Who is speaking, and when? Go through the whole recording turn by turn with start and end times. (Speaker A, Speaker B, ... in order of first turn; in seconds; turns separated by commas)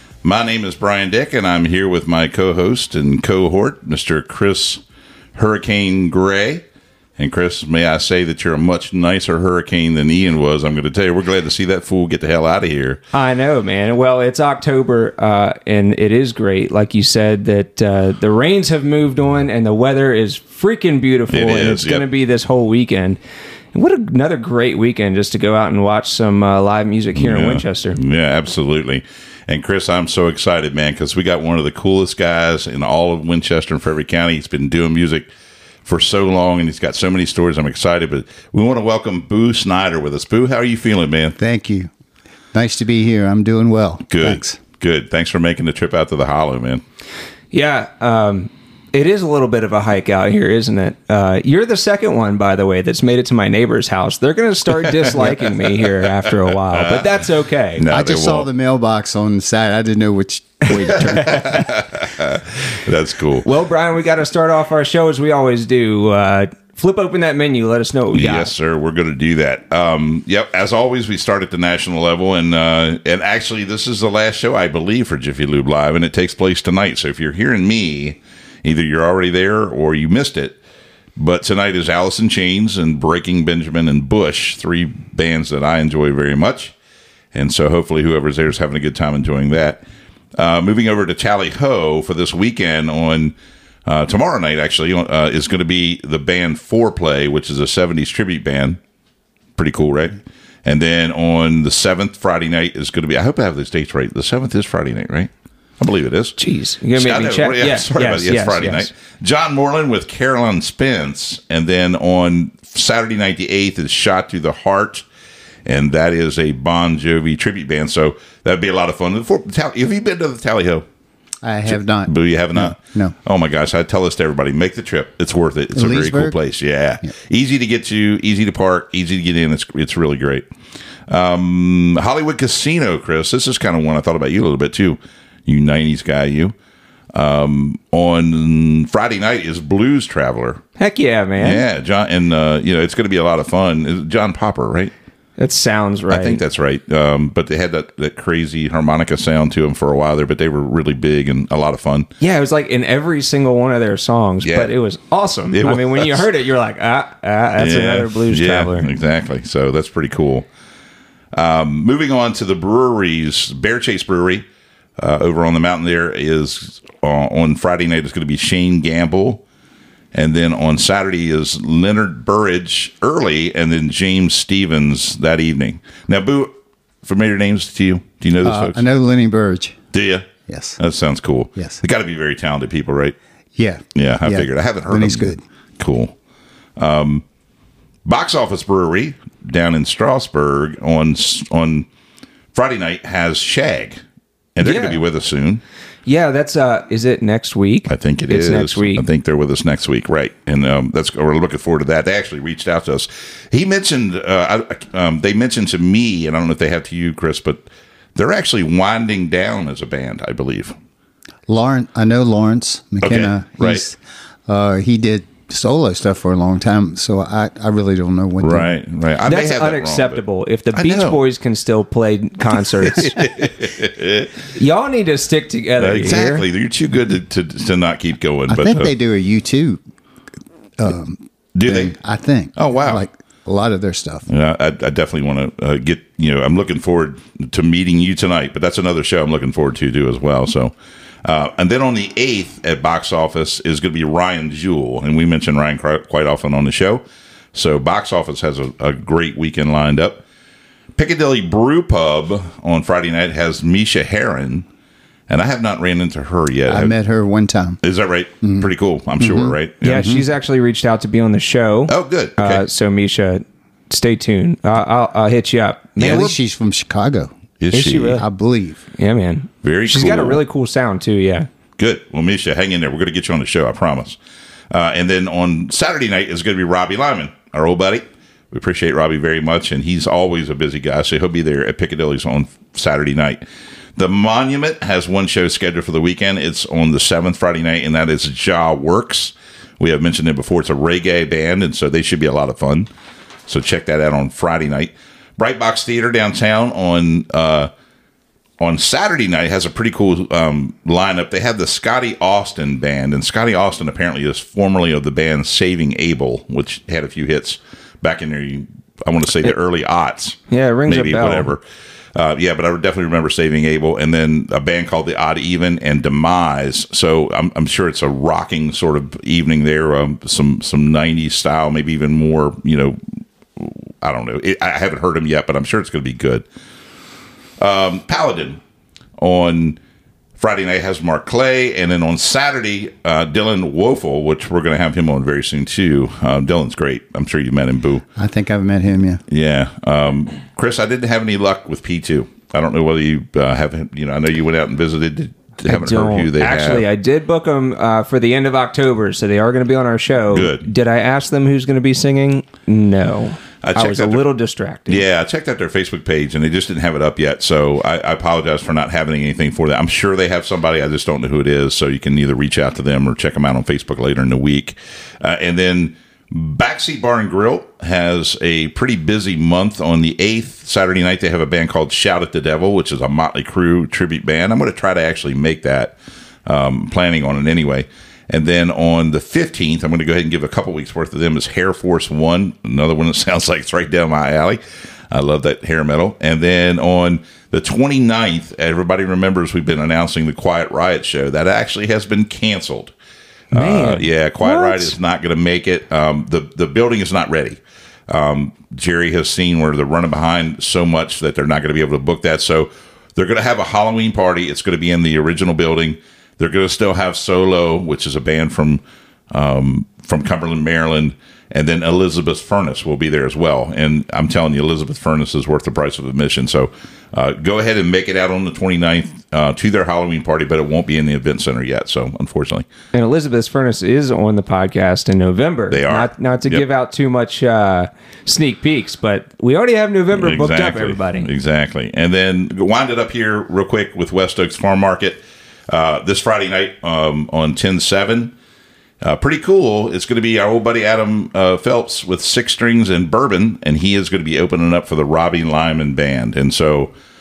Speaker A: 0.2-4.8, Speaker A: 5.3-6.6, Speaker A: 7.2-13.0, Speaker B: 13.1-23.2, Speaker A: 21.3-22.1, Speaker B: 23.7-28.0, Speaker A: 27.1-35.3, Speaker A: 35.8-41.4, Speaker C: 41.4-41.9, Speaker C: 42.5-44.6, Speaker A: 44.1-46.8, Speaker B: 47.5-57.8, Speaker A: 56.7-57.1, Speaker A: 57.8-58.5, Speaker C: 57.9-61.7, Speaker A: 60.9-63.5, Speaker B: 61.0-61.6, Speaker B: 63.4-68.5, Speaker A: 68.1-80.6, Speaker A: 81.2-86.7, Speaker A: 87.3-89.8, Speaker A: 90.3-93.3, Speaker A: 93.8-98.8, Speaker A: 99.6-106.4, Speaker B: 106.4-108.9, Speaker A: 106.9-115.1, Speaker A: 115.7-120.8, Speaker C: 121.4-123.2, Speaker A: 121.7-130.4, Speaker C: 125.8-126.4, Speaker A: 131.1-136.5, Speaker A: 137.1-140.6, Speaker B: 140.8-141.6, Speaker A: 141.4-144.9, Speaker B: 145.4-146.4, Speaker A: 146.1-152.1, Speaker B: 152.2-158.9, Speaker A: 154.4-154.7, Speaker A: 155.5-156.2, Speaker A: 157.6-160.5, Speaker A: 161.3-164.4, Speaker A: 165.0-169.4, Speaker A: 170.1-176.5, Speaker A: 177.0-178.8, Speaker C: 178.4-179.8, Speaker A: 179.9-183.2, Speaker C: 180.5-180.8, Speaker C: 183.6-185.4, Speaker A: 183.9-186.1, Speaker A: 186.8-187.2, Speaker A: 188.1-191.9, Speaker A: 192.5-194.0, Speaker A: 194.6-195.6, Speaker B: 194.6-195.0, Speaker B: 196.1-199.0, Speaker A: 197.9-207.7, Speaker A: 208.2-210.8, Speaker C: 211.5-218.7, Speaker A: 213.0-213.8, Speaker A: 218.4-220.2, Speaker B: 219.2-223.3, Speaker A: 220.7-221.2, Speaker A: 222.9-224.3, Speaker B: 224.6-226.4, Speaker A: 225.8-228.9, Speaker C: 228.5-229.8, Speaker C: 230.8-234.3, Speaker A: 231.5-231.9, Speaker A: 232.6-233.0, Speaker A: 234.3-240.7, Speaker A: 241.2-247.0, Speaker A: 247.5-250.2, Speaker A: 251.0-254.7, Speaker A: 255.3-256.9, Speaker C: 256.7-257.8, Speaker A: 257.8-260.2, Speaker C: 259.2-260.2, Speaker B: 259.8-266.3, Speaker A: 261.9-262.6, Speaker C: 266.0-267.3, Speaker A: 267.6-268.2, Speaker B: 267.7-268.2, Speaker C: 268.1-268.8, Speaker B: 269.0-271.5, Speaker A: 269.6-270.4, Speaker A: 271.8-274.2, Speaker A: 274.7-283.4, Speaker A: 284.0-292.9, Speaker A: 293.5-297.7, Speaker A: 298.6-311.6, Speaker B: 310.5-311.5, Speaker A: 312.1-323.0, Speaker A: 323.6-326.4, Speaker A: 327.6-328.6, Speaker A: 329.2-329.8, Speaker A: 330.4-338.0, Speaker C: 338.2-339.2, Speaker A: 339.3-346.8, Speaker B: 345.6-355.0, Speaker A: 350.3-350.7, Speaker A: 353.6-354.2, Speaker A: 354.9-392.9, Speaker B: 393.5-394.9, Speaker A: 393.5-422.6, Speaker B: 422.9-431.3, Speaker A: 425.7-426.6, Speaker A: 430.1-438.3, Speaker A: 439.0-446.9